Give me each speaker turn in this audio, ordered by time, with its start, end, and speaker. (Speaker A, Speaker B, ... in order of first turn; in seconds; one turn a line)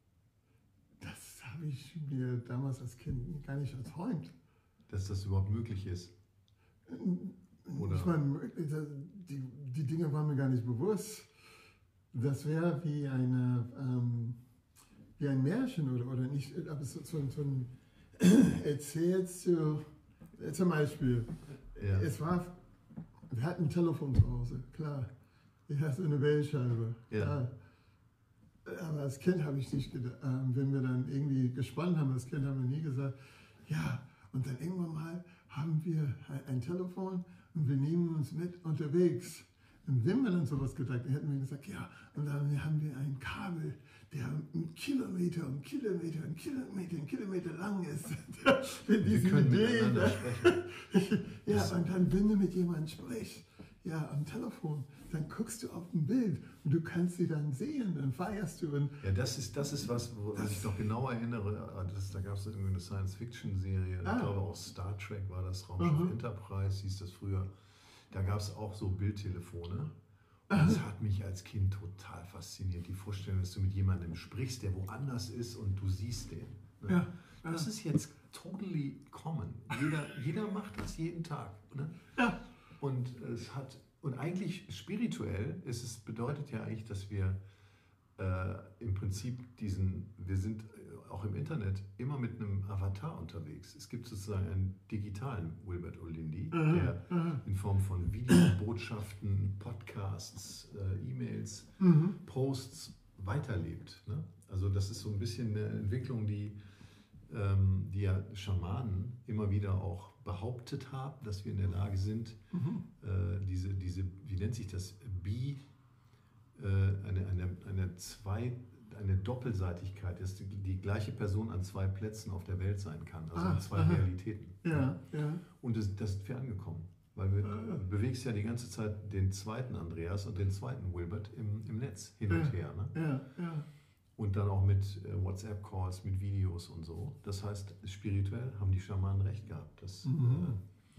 Speaker A: 1.0-4.3
Speaker B: 4.9-6.1
Speaker A: 6.9-11.3
Speaker B: 7.7-8.1
Speaker A: 12.1-14.4
Speaker A: 15.2-22.5
Speaker B: 21.8-22.1
Speaker A: 23.3-25.1
Speaker A: 25.7-27.5
Speaker B: 27.1-27.4
Speaker A: 28.6-59.0
Speaker B: 49.0-50.6
Speaker B: 51.5-51.7
Speaker B: 59.0-67.5
Speaker A: 60.3-60.6
Speaker A: 64.0-64.3
Speaker A: 65.8-66.1
Speaker B: 68.1-69.9
Speaker B: 70.5-82.0
Speaker A: 70.5-70.8
Speaker A: 76.9-77.7
Speaker B: 82.8-87.4
Speaker B: 88.2-106.6
Speaker A: 96.5-97.4
Speaker A: 101.8-102.2
Speaker B: 107.3-112.4
Speaker A: 112.5-112.8
Speaker B: 113.0-115.6
Speaker B: 116.5-124.9
Speaker A: 123.3-124.1
Speaker A: 124.6-125.4
Speaker B: 125.5-132.9
Speaker A: 127.4-127.8
Speaker A: 132.3-133.7
Speaker B: 134.2-140.6
Speaker A: 140.0-140.6